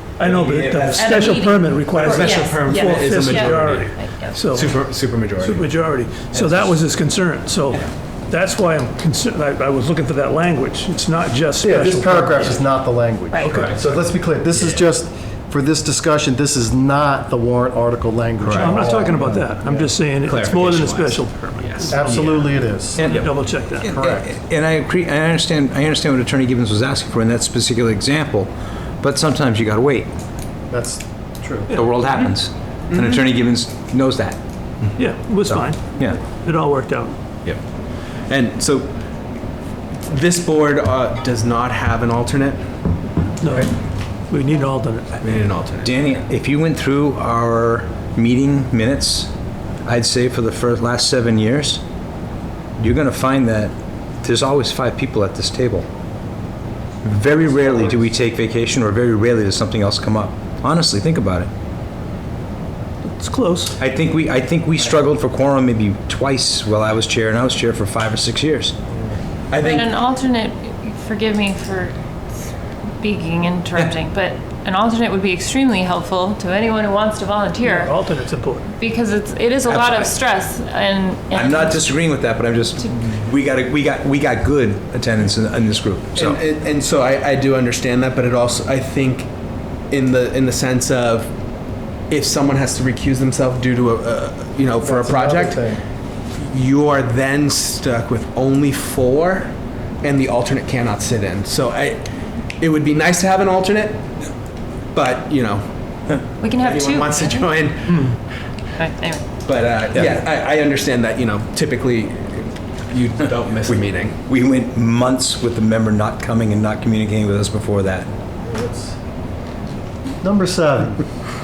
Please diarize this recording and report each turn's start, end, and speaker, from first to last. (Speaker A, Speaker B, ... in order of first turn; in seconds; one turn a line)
Speaker A: 0.2-4.8
Speaker B: 0.2-1.1
Speaker C: 0.9-4.5
Speaker D: 1.9-5.7
Speaker A: 5.4-12.7
Speaker D: 6.3-6.7
Speaker E: 11.6-19.9
Speaker C: 13.3-13.7
Speaker D: 13.4-14.0
Speaker D: 14.5-14.8
Speaker D: 18.4-18.8
Speaker A: 18.5-22.3
Speaker D: 20.2-22.5
Speaker E: 21.9-23.1
Speaker B: 23.0-30.1
Speaker A: 23.0-23.9
Speaker D: 23.0-23.3
Speaker E: 23.8-24.4
Speaker E: 30.7-31.7
Speaker A: 31.7-32.2
Speaker B: 31.7-34.4
Speaker A: 35.0-37.2
Speaker B: 35.5-36.2
Speaker D: 38.3-39.0
Speaker D: 40.0-42.6
Speaker A: 43.4-45.4
Speaker D: 45.2-45.9
Speaker B: 45.8-49.3
Speaker B: 49.9-51.8
Speaker B: 52.8-55.9
Speaker B: 57.0-61.5
Speaker A: 63.0-63.8
Speaker B: 63.8-68.8
Speaker D: 69.5-69.9
Speaker C: 69.6-72.0
Speaker C: 73.0-78.0
Speaker A: 77.6-78.8
Speaker C: 78.8-81.9
Speaker B: 79.7-80.2
Speaker B: 81.3-86.4
Speaker D: 86.2-89.3
Speaker D: 89.9-91.3
Speaker D: 92.1-95.6
Speaker E: 94.8-95.8
Speaker D: 96.3-102.1
Speaker D: 102.6-104.1
Speaker D: 104.9-108.1
Speaker C: 106.4-107.7
Speaker C: 108.8-109.3
Speaker D: 109.5-114.2
Speaker B: 113.7-118.1
Speaker E: 118.5-119.0
Speaker E: 120.2-121.0